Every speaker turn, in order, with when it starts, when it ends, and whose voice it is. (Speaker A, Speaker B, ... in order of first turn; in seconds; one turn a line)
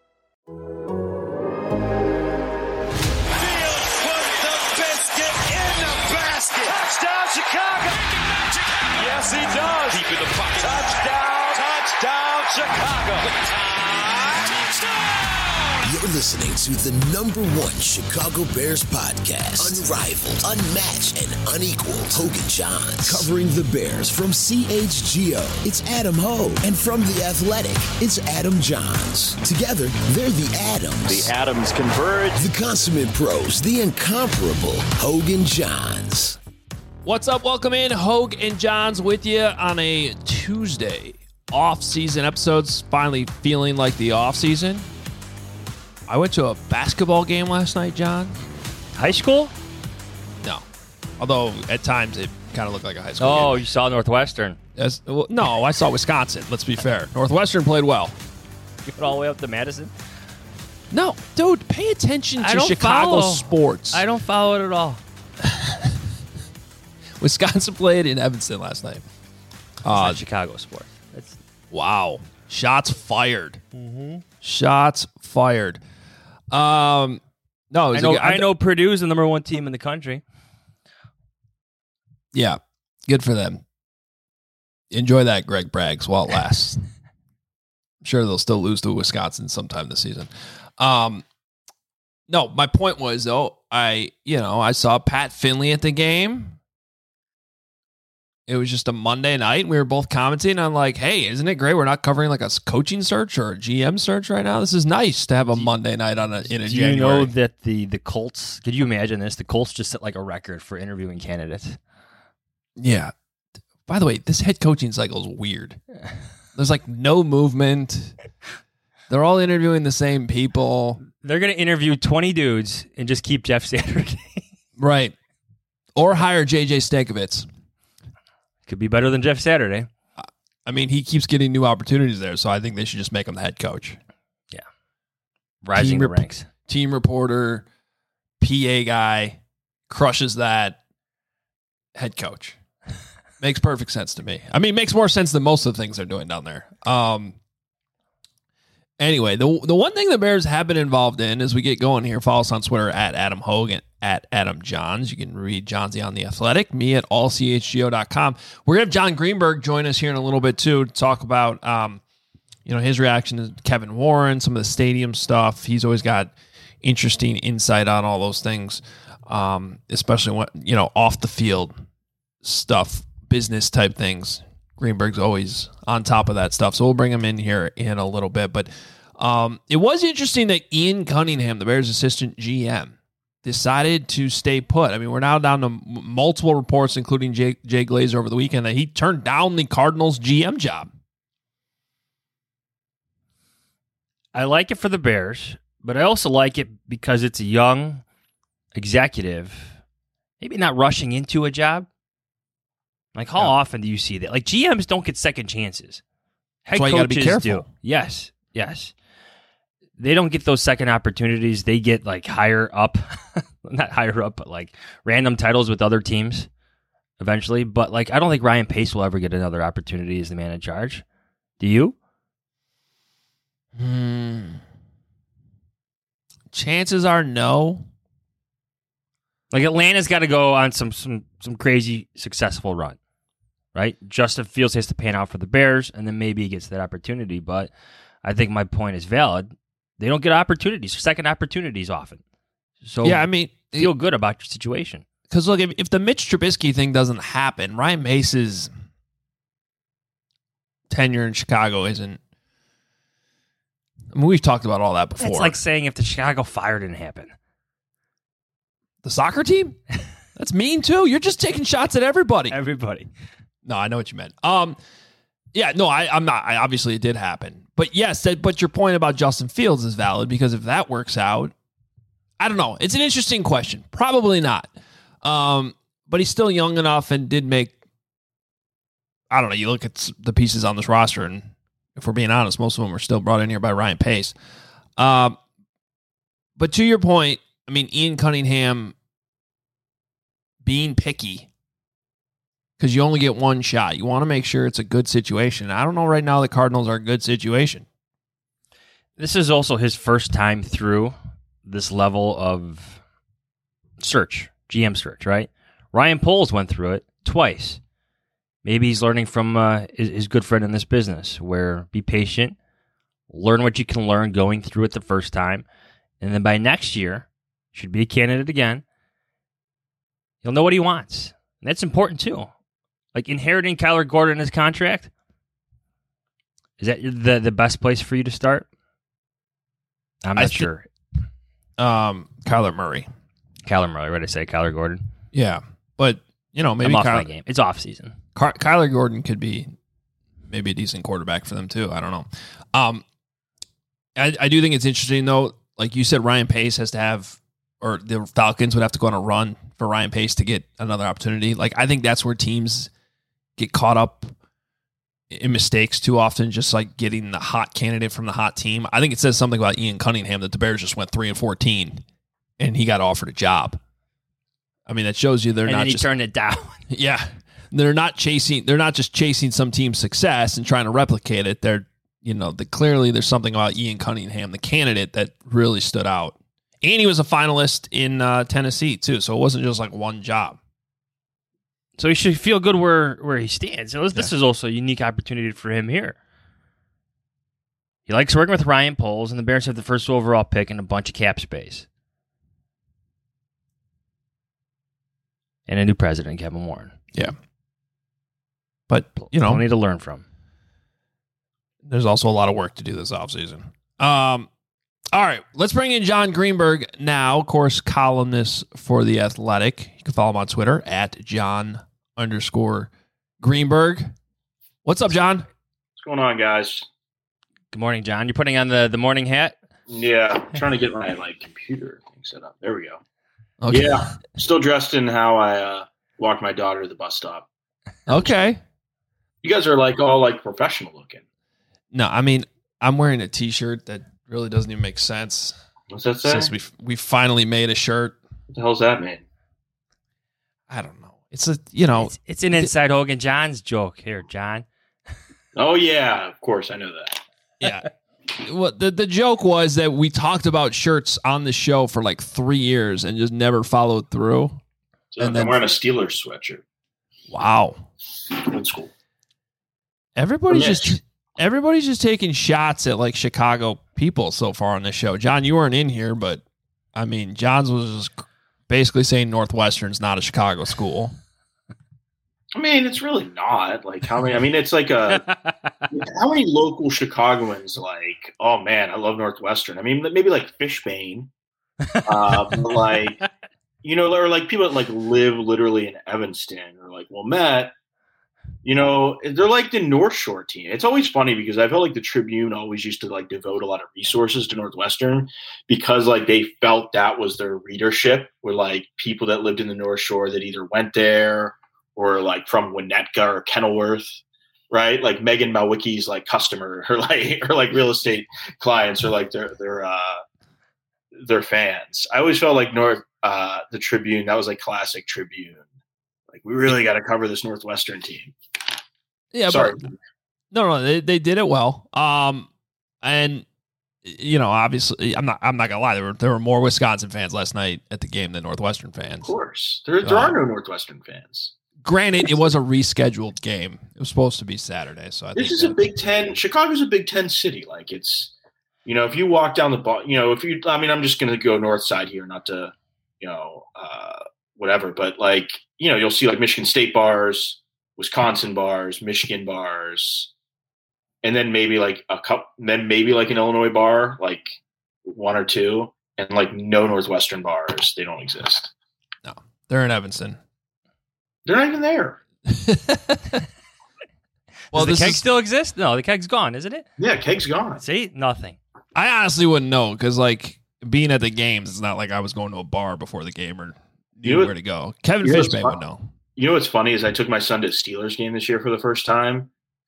Speaker A: 3.4-15.8
Speaker B: 15.8-31.3
Speaker C: 31.0-32.4
Speaker B: 32.4-36.4
Speaker D: 37.0-44.9
Speaker D: 46.1-48.4
Speaker E: 49.0-49.5
Speaker D: 51.2-53.6
Speaker E: 53.2-54.6
Speaker D: 54.8-58.1
Speaker E: 58.9-59.9
Speaker D: 60.9-64.0
Speaker E: 62.4-65.0
Speaker D: 67.2-69.0
Speaker D: 69.8-70.2
Speaker E: 69.9-71.4
Speaker D: 71.7-73.6
Speaker E: 73.7-74.2
Speaker D: 74.4-75.8
Speaker D: 76.5-78.5
Speaker E: 77.9-80.2
Speaker D: 82.3-83.6
Speaker D: 84.9-86.8
Speaker D: 88.0-91.2
Speaker D: 92.3-96.6
Speaker D: 98.5-107.3
Speaker E: 106.4-111.8
Speaker D: 112.8-113.1
Speaker D: 113.8-115.8
Speaker D: 116.5-118.2
Speaker D: 119.1-121.0
Speaker E: 121.2-124.4
Speaker D: 124.8-125.1
Speaker D: 126.0-127.5
Speaker E: 128.7-129.9
Speaker D: 130.2-134.0
Speaker E: 135.6-136.5
Speaker D: 135.7-137.6
Speaker D: 138.4-140.8
Speaker D: 141.9-142.6
Speaker D: 143.4-147.3
Speaker D: 149.0-162.0
Speaker D: 162.7-166.3
Speaker D: 166.8-171.7
Speaker D: 172.4-190.9
Speaker E: 194.3-198.0
Speaker E: 198.7-199.8
Speaker E: 200.4-201.9
Speaker E: 203.1-206.0
Speaker E: 206.6-208.9
Speaker D: 206.7-207.7
Speaker E: 210.0-216.5
Speaker E: 217.2-221.0
Speaker E: 221.6-221.9
Speaker D: 223.8-224.6
Speaker D: 226.5-227.8
Speaker E: 229.5-233.0
Speaker E: 233.7-237.7
Speaker E: 238.2-242.2
Speaker E: 242.8-245.0
Speaker D: 243.0-243.9
Speaker D: 245.3-248.7
Speaker D: 250.9-252.2
Speaker D: 254.1-255.6
Speaker E: 255.2-257.3
Speaker D: 259.0-259.8
Speaker D: 260.4-262.6
Speaker E: 262.5-263.1
Speaker D: 263.6-264.8
Speaker D: 265.5-271.5
Speaker D: 272.4-274.7
Speaker D: 275.2-277.7
Speaker D: 279.3-284.3
Speaker D: 285.0-285.4
Speaker D: 286.6-288.9
Speaker D: 290.6-291.5
Speaker D: 292.8-297.8
Speaker E: 299.2-303.0
Speaker E: 304.0-307.8
Speaker E: 308.6-312.6
Speaker E: 313.3-315.6
Speaker E: 316.2-318.8
Speaker E: 320.4-322.5
Speaker E: 323.1-325.1
Speaker E: 326.8-328.7
Speaker E: 330.2-330.9
Speaker D: 330.4-330.7
Speaker D: 331.8-333.1
Speaker E: 333.6-335.1
Speaker D: 335.3-337.3
Speaker E: 336.8-338.1
Speaker D: 338.3-339.7
Speaker D: 340.5-343.0
Speaker D: 344.1-352.9
Speaker D: 353.6-354.3
Speaker D: 355.3-362.0
Speaker D: 362.6-363.8
Speaker D: 364.9-366.1
Speaker E: 365.6-366.8
Speaker D: 366.9-380.6
Speaker E: 382.0-386.2
Speaker E: 388.1-391.9
Speaker E: 395.7-396.9
Speaker D: 398.9-399.6
Speaker E: 399.2-400.2
Speaker D: 401.8-404.5
Speaker D: 405.1-412.9
Speaker D: 413.4-414.1
Speaker D: 414.8-415.5
Speaker C: 416.0-416.9
Speaker E: 417.7-419.6
Speaker C: 419.9-423.0
Speaker D: 423.6-424.1
Speaker C: 423.7-427.5
Speaker D: 428.1-428.6
Speaker C: 429.4-431.2
Speaker D: 431.9-435.6
Speaker C: 435.9-436.5
Speaker D: 436.2-438.2
Speaker C: 438.5-439.2
Speaker D: 440.7-442.7
Speaker E: 442.0-444.6
Speaker C: 445.6-447.2
Speaker D: 447.6-447.9
Speaker D: 448.4-454.6
Speaker C: 455.1-456.6
Speaker D: 455.2-455.6
Speaker D: 457.3-457.8
Speaker C: 458.3-458.9
Speaker D: 460.1-466.4
Speaker C: 460.5-460.9
Speaker D: 466.9-471.1
Speaker C: 472.5-475.2
Speaker E: 475.2-475.8
Speaker C: 475.9-481.3
Speaker E: 481.9-482.7
Speaker C: 482.0-483.2
Speaker C: 483.8-487.7
Speaker C: 488.6-510.2
Speaker C: 511.2-515.6
Speaker C: 516.3-518.3
Speaker D: 519.3-519.8
Speaker C: 519.5-519.9
Speaker D: 520.5-522.5
Speaker D: 523.0-523.4
Speaker D: 524.0-529.3
Speaker C: 529.2-531.5
Speaker D: 530.0-530.4
Speaker D: 531.8-535.8
Speaker C: 535.4-538.3
Speaker C: 538.8-550.3
Speaker C: 551.2-554.5
Speaker C: 555.1-558.7
Speaker D: 559.2-560.4
Speaker C: 561.5-562.2
Speaker D: 562.5-563.4
Speaker E: 564.7-566.9
Speaker D: 564.7-565.2
Speaker C: 567.0-567.8
Speaker E: 567.8-568.6
Speaker D: 568.9-576.1
Speaker C: 574.2-574.5
Speaker C: 575.2-575.8
Speaker C: 576.4-579.5